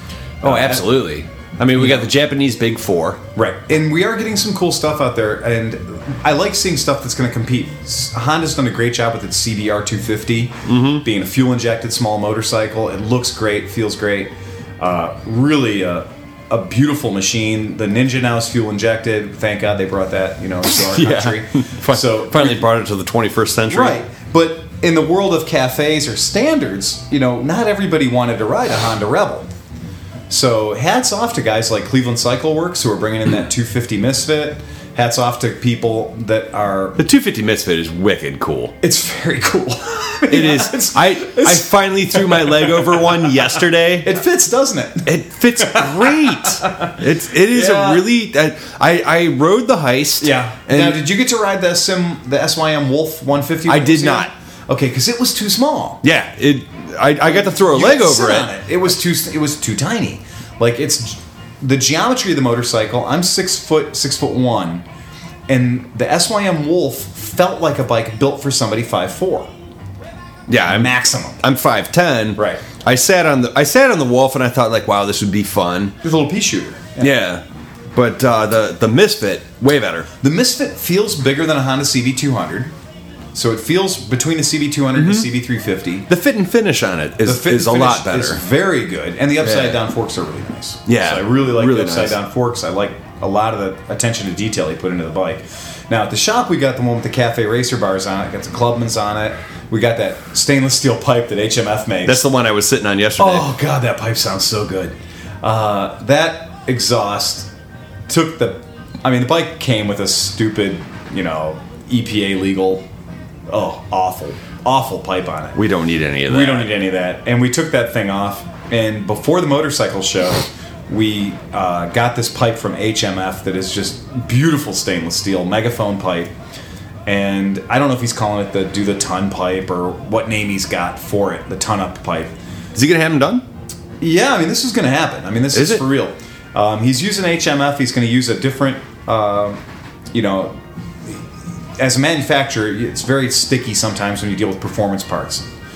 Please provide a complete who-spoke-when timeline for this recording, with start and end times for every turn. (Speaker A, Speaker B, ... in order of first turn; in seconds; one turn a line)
Speaker A: 0.4-3.2
Speaker B: 0.4-1.1
Speaker B: 1.8-2.1
Speaker B: 3.4-22.6
Speaker A: 10.7-11.0
Speaker A: 20.7-24.0
Speaker B: 23.7-29.5
Speaker B: 30.3-37.0
Speaker A: 37.0-38.8
Speaker B: 38.8-48.1
Speaker A: 40.3-44.2
Speaker A: 45.1-51.0
Speaker B: 50.2-56.0
Speaker A: 53.7-54.3
Speaker A: 56.0-58.5
Speaker B: 57.2-64.8
Speaker B: 65.5-69.5
Speaker A: 70.5-76.0
Speaker B: 70.6-71.4
Speaker B: 72.4-72.6
Speaker B: 76.0-77.1
Speaker A: 77.0-77.4
Speaker A: 77.9-80.1
Speaker B: 80.2-82.7
Speaker B: 83.3-86.1
Speaker A: 85.0-85.3
Speaker A: 86.1-88.4
Speaker B: 87.2-102.2
Speaker A: 89.4-89.8
Speaker A: 90.9-92.2
Speaker A: 102.1-103.5
Speaker B: 103.2-107.5
Speaker B: 108.1-112.8
Speaker B: 113.5-115.6
Speaker A: 115.5-116.7
Speaker B: 116.3-126.3
Speaker B: 127.1-132.3
Speaker A: 132.8-133.4
Speaker B: 134.0-139.6
Speaker A: 135.5-135.8
Speaker B: 140.1-140.6
Speaker B: 141.8-145.4